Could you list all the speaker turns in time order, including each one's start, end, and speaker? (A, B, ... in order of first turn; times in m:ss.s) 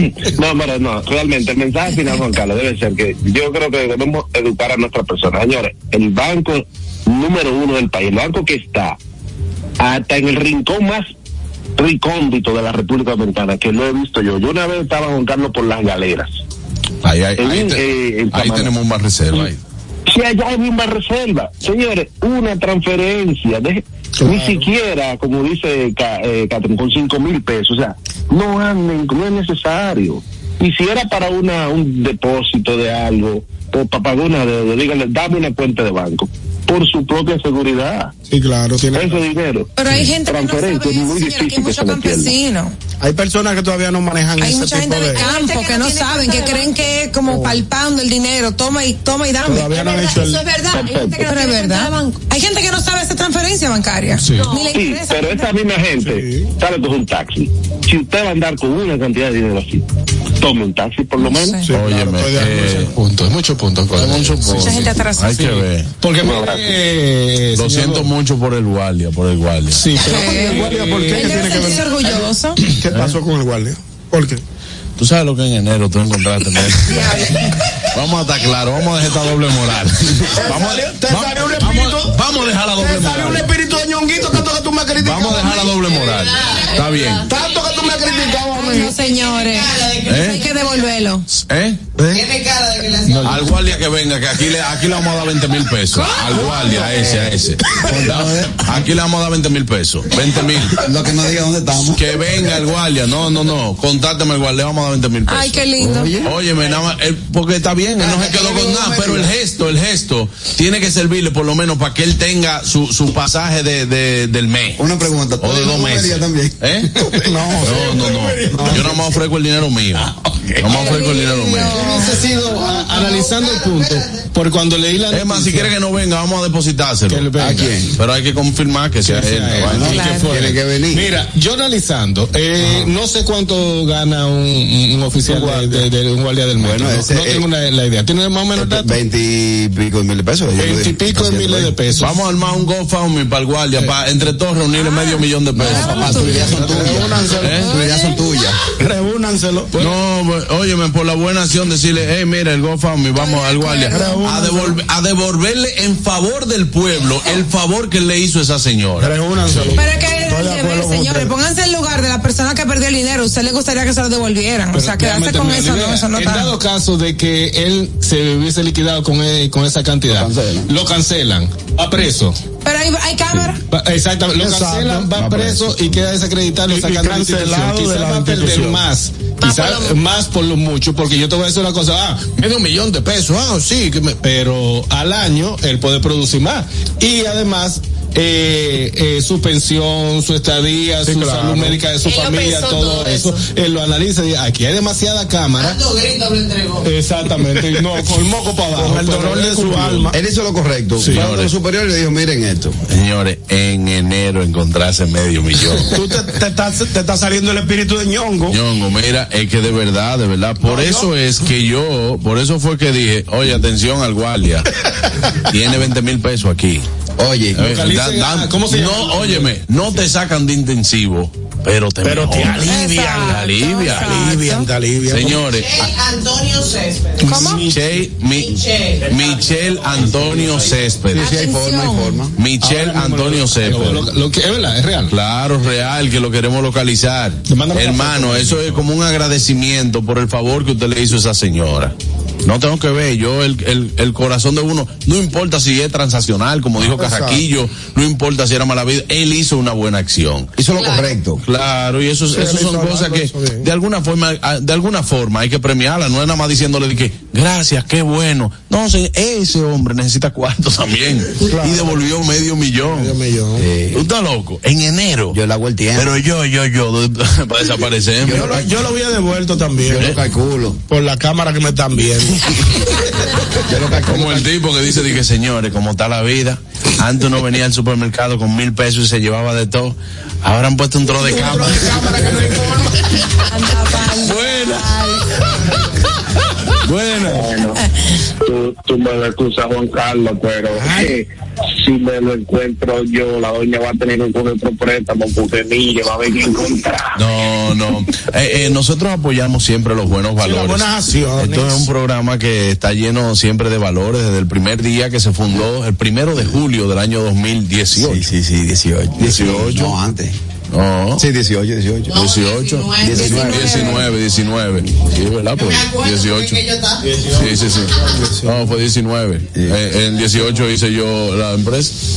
0:00.3-0:09.0 A
0:09.8-0:11.1 A
0:11.8-0:16.3 A
0:17.0-0:19.6 B
0:17.4-0:18.7 A
0:20.1-0:38.1 A
0:24.2-0:24.7 C
0:38.3-0:39.2 C
0:38.9-0:42.3 A
0:39.8-0:42.8 D
0:43.0-0:45.3 C
0:44.4-0:50.2 D
0:45.2-0:46.8 E
0:47.3-0:47.6 C
0:49.5-0:50.4 C
0:49.7-0:52.2 E
0:50.7-0:51.3 A
0:51.2-0:55.6 D
0:54.2-0:54.5 F
0:54.4-0:54.8 E
0:54.7-0:59.8 A
0:56.0-0:56.5 C
1:00.4-1:01.6 A
1:01.3-1:01.6 D
1:01.7-1:02.9 C
1:01.7-1:02.9 B
1:02.9-1:05.0 F
1:03.9-1:05.9 B
1:04.6-1:05.6 D
1:06.0-1:08.1 F
1:06.2-1:06.6 A
1:07.6-1:09.8 B
1:09.7-1:11.6 F
1:10.0-1:12.6 D
1:10.2-1:12.2 C
1:12.8-1:14.4 C
1:15.0-1:17.3 B
1:16.9-1:17.3 D
1:17.9-1:23.5 B
1:20.3-1:25.8 C
1:25.0-1:27.2 B
1:26.1-1:27.1 E
1:27.2-1:29.0 C
1:28.5-1:31.2 D
1:30.0-1:30.4 B
1:31.5-1:31.8 B
1:32.0-1:32.3 C
1:32.4-1:33.0 E
1:33.0-1:40.8 B
1:37.7-1:38.8 G
1:40.8-1:42.2 G
1:41.8-1:56.9 B
1:45.3-1:46.1 D
1:45.8-1:46.4 G
1:48.0-1:49.3 G
1:54.8-1:56.6 G
1:57.0-1:59.2 C
1:57.6-2:02.0 B
1:58.6-1:58.9 G
2:00.7-2:02.2 D
2:01.7-2:05.7 F
2:05.1-2:07.5 B
2:07.1-2:07.8 F
2:07.4-2:07.9 G
2:08.0-2:10.6 B
2:09.0-2:10.1 F
2:09.7-2:11.1 G
2:09.8-2:10.3 D
2:10.9-2:18.9 F
2:16.6-2:17.4 G
2:18.6-2:21.7 G
2:20.5-2:22.2 F
2:22.0-2:27.7 B
2:24.8-2:26.6 D
2:25.6-2:28.6 G
2:26.6-2:27.8 C
2:27.6-2:28.2 D
2:28.8-2:29.7 C
2:29.7-2:39.7 B
2:33.2-2:34.2 D
2:33.9-2:34.8 C
2:39.0-2:41.3 C
2:39.8-2:46.5 D
2:44.7-2:52.4 F
2:50.1-2:50.7 G
2:52.6-2:53.6 D
2:53.7-3:02.4 F
2:54.4-2:55.1 C
2:55.2-2:55.8 G
2:56.7-2:58.9 C
3:03.3-3:03.8 C
3:04.1-3:15.9 F
3:11.0-3:11.8 C
3:12.0-3:13.4 E
3:16.8-3:20.1 F
3:17.6-3:20.2 C
3:20.1-3:22.8 G
3:21.0-3:21.5 B
3:22.9-3:26.0 B
3:25.9-3:28.6 C
3:28.5-3:34.7 B
3:30.6-3:31.1 C
3:35.5-3:36.9 B
3:37.2-3:37.6 G
3:37.6-3:39.5 F
3:37.6-3:44.2 B
3:42.0-3:42.9 C
3:42.6-3:44.7 D
3:43.9-3:45.5 C
3:45.1-3:45.9 B
3:47.2-3:47.7 F
3:47.2-3:47.7 D
3:47.4-3:47.7 C
3:47.6-3:51.3 B
3:51.1-3:52.4 G
3:51.2-3:52.2 D
3:52.4-3:54.1 B
3:52.6-3:54.0 C
3:53.6-3:55.1 F
3:55.1-4:01.9 B
3:57.5-3:58.8 F
4:02.4-4:10.5 B
4:06.8-4:07.4 C
4:10.6-4:11.4 G
4:10.8-4:11.1 E
4:11.4-4:23.1 B
4:12.3-4:13.7 C
4:21.4-4:22.1 C
4:22.8-4:23.6 C
4:23.6-4:24.1 G
4:23.9-4:25.4 B
4:25.3-4:26.2 G
4:26.0-4:28.7 B
4:28.2-4:30.1 C
4:28.2-4:28.7 G
4:29.9-4:30.8 G
4:30.9-4:32.4 C
4:33.6-4:34.4 G
4:33.7-4:34.4 C
4:34.0-4:42.5 B
4:41.2-4:43.0 C
4:43.5-4:45.2 D
4:44.2-4:45.4 B
4:46.8-4:47.6 B
4:47.3-4:47.8 A
4:48.4-4:51.3 A
4:50.8-4:51.1 C
4:51.8-4:57.0 A
4:57.2-5:08.3 B
5:00.4-5:01.9 C
5:08.0-5:10.4 G
5:09.2-5:10.0 B
5:10.7-5:11.2 B
5:11.2-5:12.3 G
5:12.1-5:16.6 B
5:13.0-5:14.0 G
5:13.3-5:14.0 D
5:17.1-5:18.7 C
5:17.3-5:22.0 B